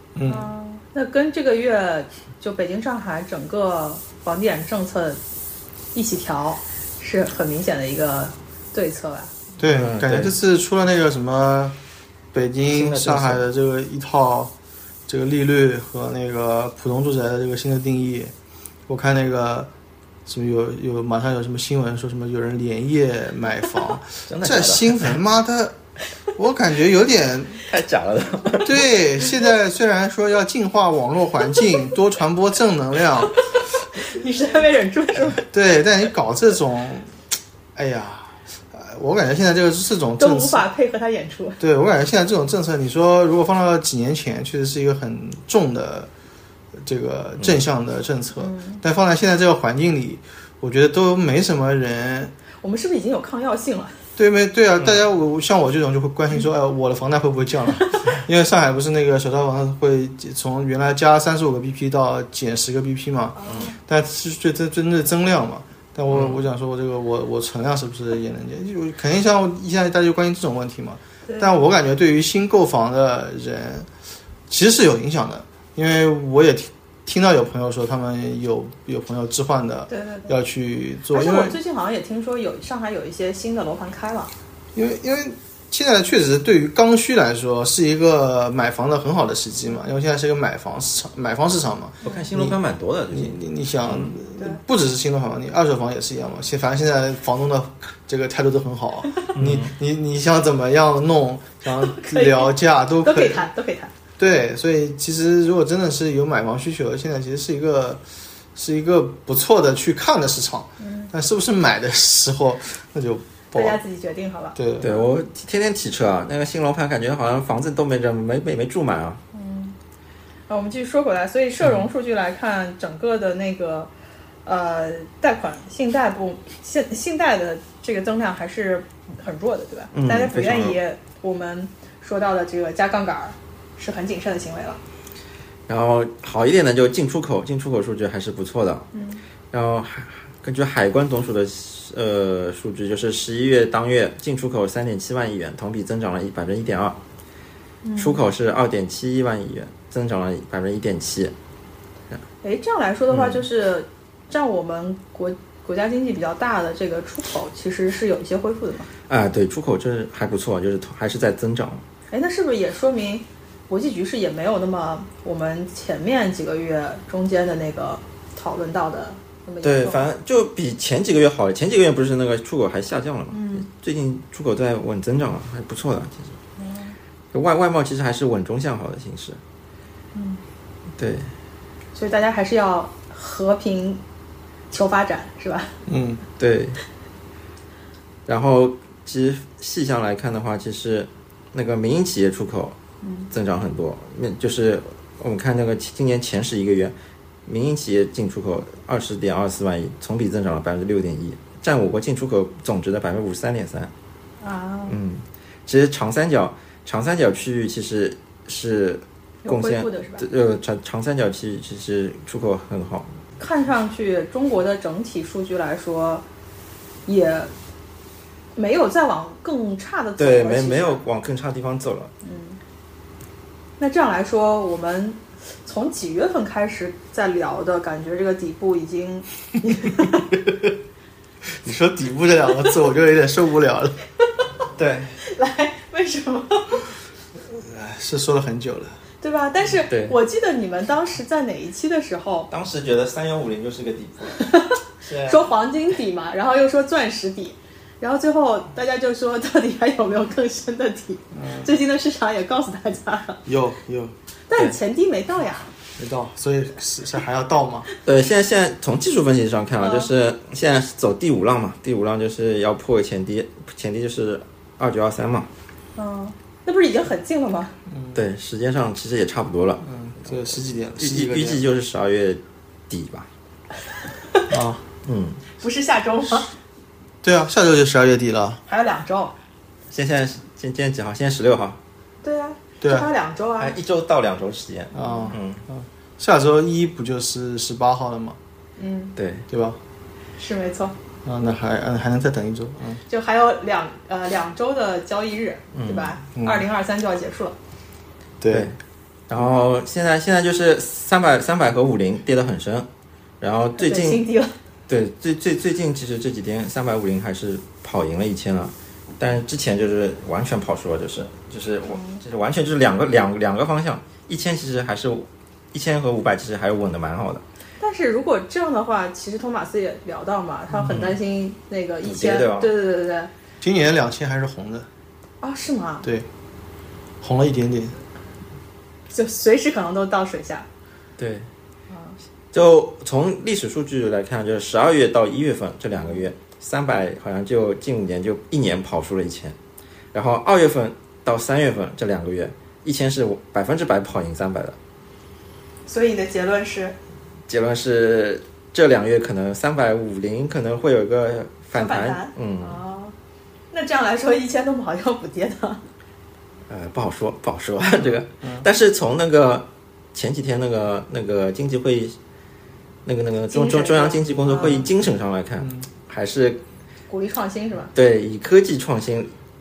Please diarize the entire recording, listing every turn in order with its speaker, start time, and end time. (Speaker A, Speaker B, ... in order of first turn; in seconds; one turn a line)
Speaker A: 0.1-0.5
Speaker B: 0.3-5.2
Speaker B: 5.9-9.3
Speaker A: 9.6-11.8
Speaker C: 9.6-10.4
Speaker A: 12.3-14.5
Speaker C: 12.7-13.4
Speaker A: 15.1-18.3
Speaker A: 18.9-19.7
Speaker A: 20.3-25.8
Speaker C: 24.3-25.2
Speaker A: 26.4-27.6
Speaker C: 27.6-29.0
Speaker A: 28.6-33.4
Speaker B: 33.9-35.4
Speaker A: 35.4-37.1
Speaker A: 37.8-40.7
Speaker B: 40.2-41.6
Speaker A: 41.6-46.1
Speaker A: 46.8-52.3
Speaker B: 48.4-48.8
Speaker B: 52.6-54.0
Speaker A: 54.2-73.9
Speaker B: 63.4-63.8
Speaker C: 66.1-66.4
Speaker B: 71.3-71.5
Speaker A: 74.5-81.6
Speaker B: 79.9-80.3
Speaker B: 81.1-84.3
Speaker A: 84.8-92.6
Speaker C: 92.0-94.1
Speaker A: 93.1-103.5
Speaker C: 99.3-99.7
Speaker B: 101.7-103.9
Speaker A: 104.2-108.0
Speaker A: 108.5-113.8
Speaker B: 110.8-111.1
Speaker B: 113.5-114.6
Speaker A: 114.6-115.0
Speaker C: 114.8-119.2
Speaker B: 119.3-119.8
Speaker B: 120.5-123.9
Speaker B: 124.5-134.8
Speaker C: 129.9-130.8
Speaker C: 135.7-138.9
Speaker B: 138.9-139.2
Speaker C: 139.5-147.0
Speaker B: 147.8-148.3
Speaker C: 148.0-151.3
Speaker B: 152.4-158.9
Speaker C: 153.1-153.4
Speaker C: 159.1-161.8
Speaker B: 162.1-170.1
Speaker C: 169.6-176.3
Speaker B: 173.3-173.7
Speaker B: 176.6-177.0
Speaker C: 177.3-179.4
Speaker B: 180.1-180.4
Speaker C: 181.0-181.3
Speaker B: 181.9-184.0
Speaker B: 184.7-185.8
Speaker A: 185.9-186.2
Speaker C: 186.4-186.8
Speaker C: 188.3-192.8
Speaker B: 193.0-193.3
Speaker C: 193.3-196.9
Speaker C: 197.5-203.9
Speaker B: 204.4-204.9
Speaker C: 204.9-213.1
Speaker B: 209.4-210.3
Speaker B: 213.4-216.2
Speaker B: 217.1-217.5
Speaker B: 218.6-221.0
Speaker C: 220.2-222.1
Speaker B: 222.2-222.6
Speaker B: 223.8-230.3
Speaker A: 231.6-234.0
Speaker C: 234.8-235.2
Speaker B: 235.2-236.9
Speaker A: 237.5-239.0
Speaker B: 239.2-242.5
Speaker C: 239.9-240.2
Speaker C: 242.5-245.5
Speaker B: 244.4-253.4
Speaker A: 251.3-251.7
Speaker A: 253.5-254.1
Speaker B: 254.5-255.7
Speaker A: 256.0-257.9
Speaker C: 258.1-265.5
Speaker B: 259.8-260.1
Speaker B: 266.0-267.8
Speaker A: 267.9-268.2
Speaker C: 268.1-269.8
Speaker A: 269.8-271.6
Speaker C: 271.0-273.3
Speaker A: 274.5-274.9
Speaker C: 275.1-275.4
Speaker B: 275.6-276.5
Speaker A: 277.2-278.6
Speaker B: 278.7-279.4
Speaker C: 279.9-281.8
Speaker B: 282.2-283.7
Speaker A: 282.8-283.1
Speaker C: 283.6-285.6
Speaker A: 284.9-288.4
Speaker B: 285.0-285.3
Speaker B: 288.8-289.1
Speaker C: 289.2-289.5
Speaker A: 289.5-289.8
Speaker B: 290.4-291.0
Speaker A: 291.2-293.0
Speaker B: 293.1-297.6
Speaker C: 295.7-296.2
Speaker A: 296.4-296.6
Speaker A: 298.4-298.7
Speaker C: 298.5-298.8
Speaker C: 299.3-302.9
Speaker C: 303.4-304.2
Speaker B: 303.8-304.5
Speaker C: 304.9-317.4
Speaker B: 311.9-312.2
Speaker B: 317.8-323.3
Speaker C: 320.7-321.2
Speaker C: 322.0-322.7
Speaker A: 323.6-324.9
Speaker B: 325.4-326.1
Speaker A: 327.2-328.0
Speaker B: 329.1-330.7
Speaker C: 331.2-331.5
Speaker B: 331.9-332.2
Speaker C: 332.5-339.6
Speaker C: 340.1-344.8
Speaker B: 345.9-347.0
Speaker C: 347.5-352.8
Speaker B: 351.8-353.1
Speaker B: 353.7-355.8
Speaker C: 356.7-362.2
Speaker A: 357.9-358.6
Speaker C: 363.1-366.6
Speaker B: 363.5-364.9
Speaker B: 367.1-367.9
Speaker C: 367.9-369.3